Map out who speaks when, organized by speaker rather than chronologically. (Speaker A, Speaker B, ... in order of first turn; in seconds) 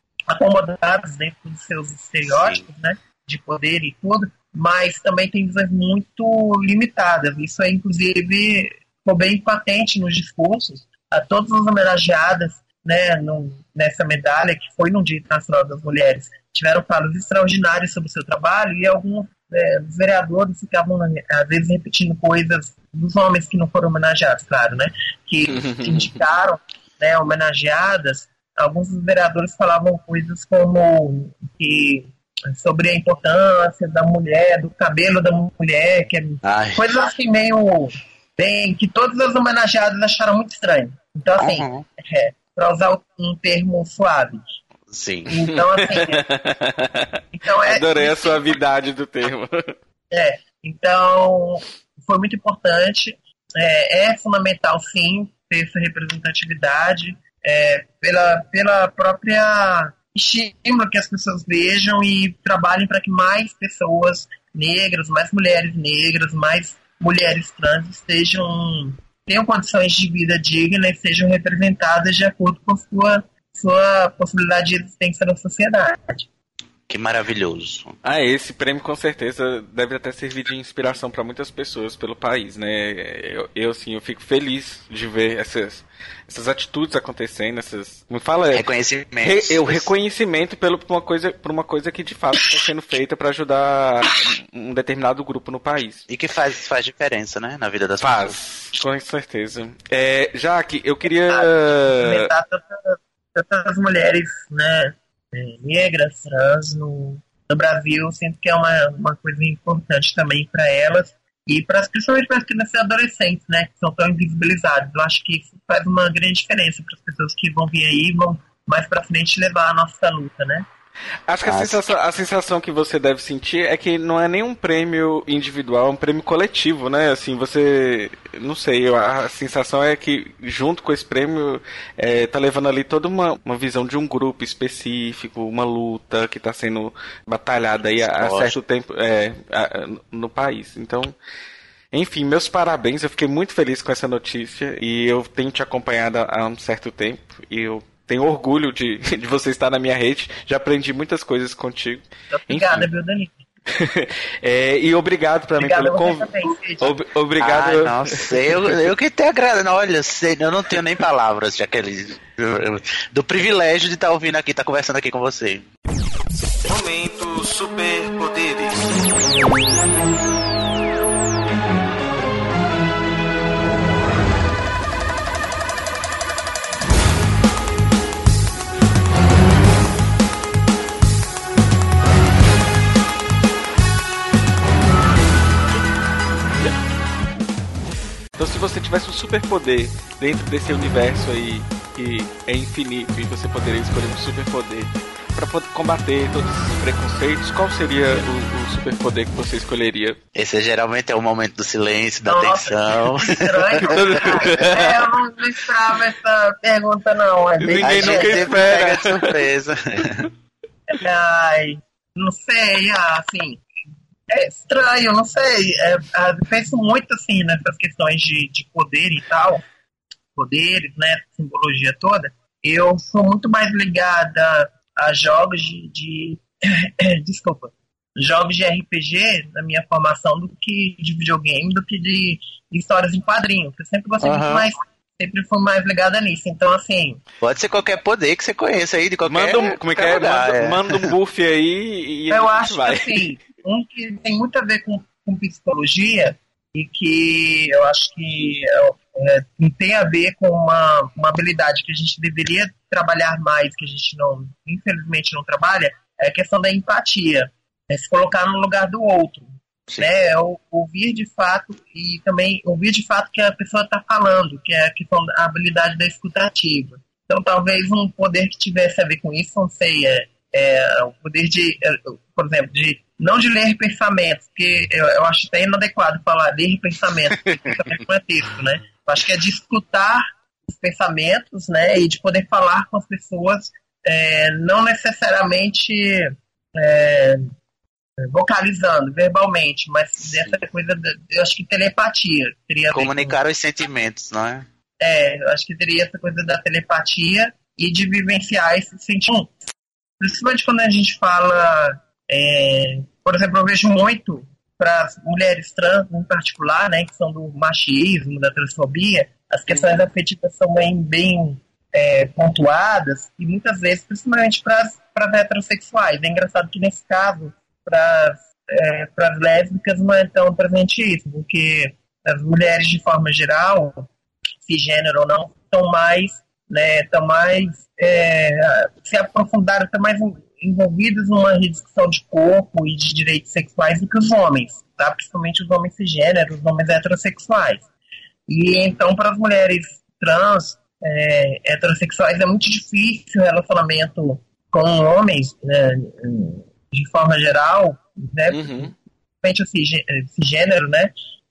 Speaker A: 0.3-44.4, 45.3-46.2, 47.3-48.4, 50.1-76.3, 101.3-120.7, 152.3-153.4, 155.6-156.9, 202.2-208.6, 210.9-213.6, 214.3-219.6, 220.3-237.2, 242.3-287.5, 288.2-293.4, 295.0-299.5, 300.2-324.1, 324.6-337.8, 338.5-351.1
Speaker B: 2.2-2.6, 36.4-36.8, 41.4-41.8, 44.9-45.3, 76.9-77.9, 88.5-89.9, 96.1-98.4, 121.4-121.8, 137.8-138.6, 157.4-165.7, 200.3-204.6, 207.8-210.3, 234.2-234.7, 237.4-241.1, 290.2-290.5, 292.9-294.6
Speaker C: 25.5-26.2, 45.5-49.7, 78.0-88.6, 89.2-96.0, 98.0-102.3, 121.3-141.1, 141.9-152.9, 153.7-158.8, 188.3-200.2, 203.8-205.0, 207.6-209.4, 239.3-243.3, 309.7-310.1, 348.5-348.9
Speaker D: 166.7-169.2